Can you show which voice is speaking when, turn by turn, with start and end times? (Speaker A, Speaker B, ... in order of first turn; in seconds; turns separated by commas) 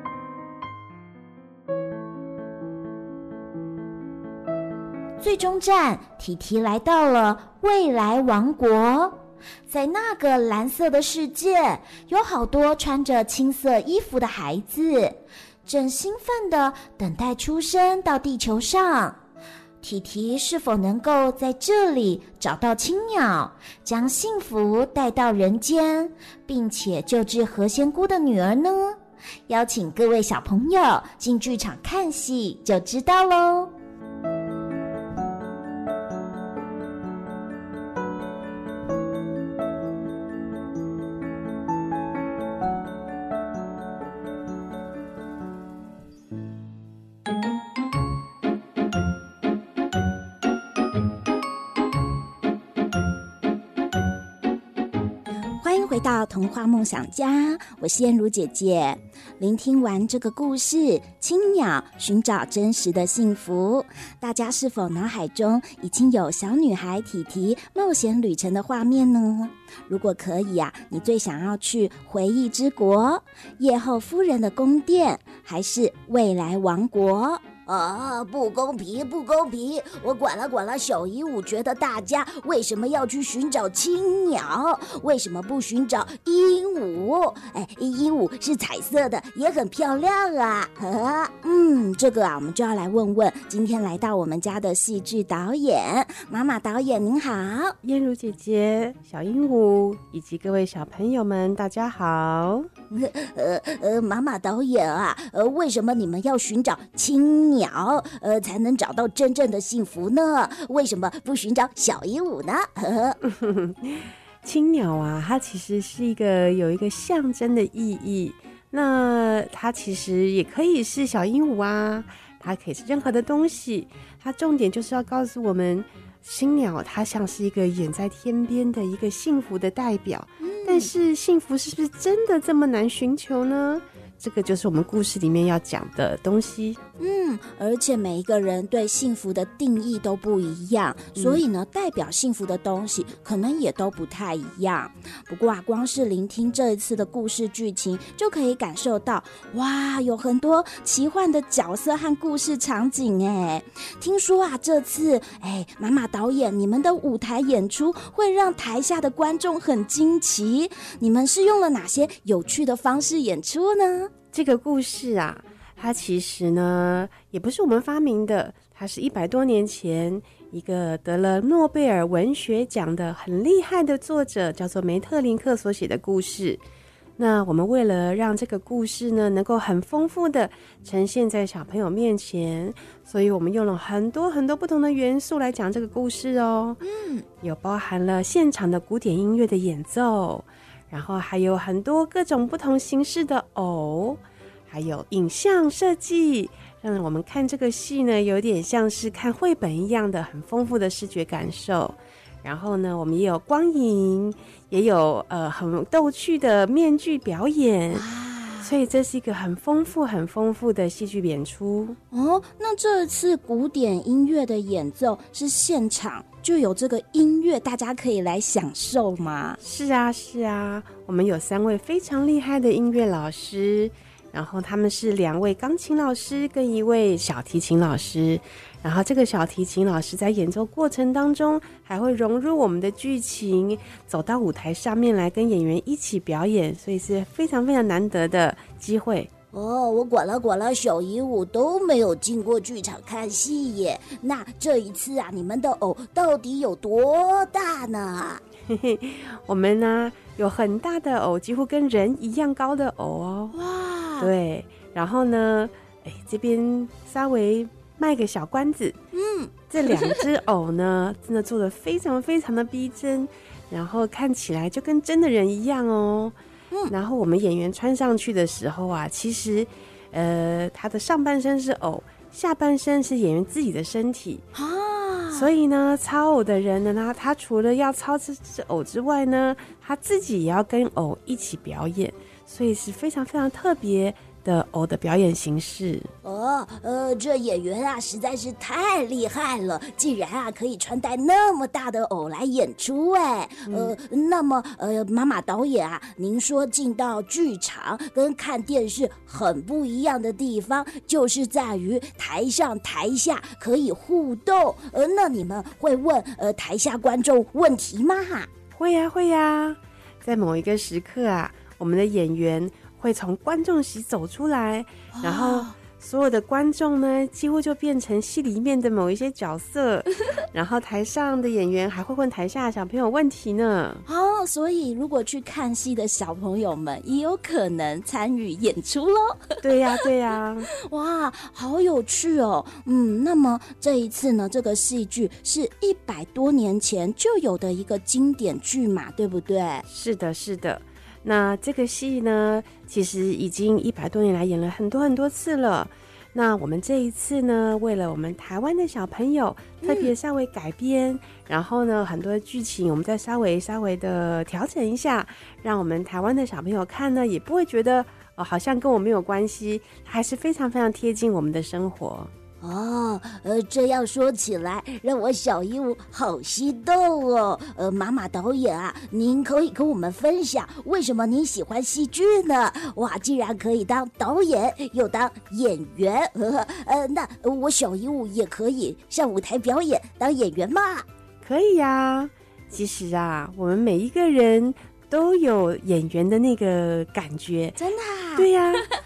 Speaker A: 5.2-19.2, Speaker A: 19.8-33.7, Speaker B: 55.6-63.6, Speaker A: 63.4-63.8, Speaker B: 64.2-97.7, Speaker C: 97.8-102.7, Speaker B: 102.9-113.2, Speaker C: 113.3-136.8, Speaker B: 130.6-130.8, Speaker B: 137.0-164.1, Speaker C: 141.2-141.4, Speaker C: 164.3-176.6, Speaker C: 177.2-186.8, Speaker A: 186.9-187.2, Speaker C: 187.4-208.1, Speaker B: 207.9-208.7, Speaker C: 208.6-212.0, Speaker B: 212.1-219.6, Speaker C: 219.6-239.3, Speaker B: 239.5-248.4, Speaker C: 248.7-253.6, Speaker B: 253.6-254.3, Speaker C: 254.2-259.0, Speaker B: 259.1-260.2, Speaker C: 259.7-266.3, Speaker C: 266.9-274.5, Speaker B: 274.5-275.5, Speaker C: 275.3-286.1, Speaker B: 286.2-308.5, Speaker C: 293.7-293.9, Speaker C: 308.7-324.0, Speaker B: 315.1-315.7, Speaker B: 324.1-329.6, Speaker C: 329.6-330.7, Speaker B: 330.9-339.8, Speaker C: 339.9-362.3, Speaker B: 349.8-350.1, Speaker B: 362.6-381.1, Speaker C: 381.4-387.8, Speaker B: 387.8-388.5, Speaker C: 388.3-388.9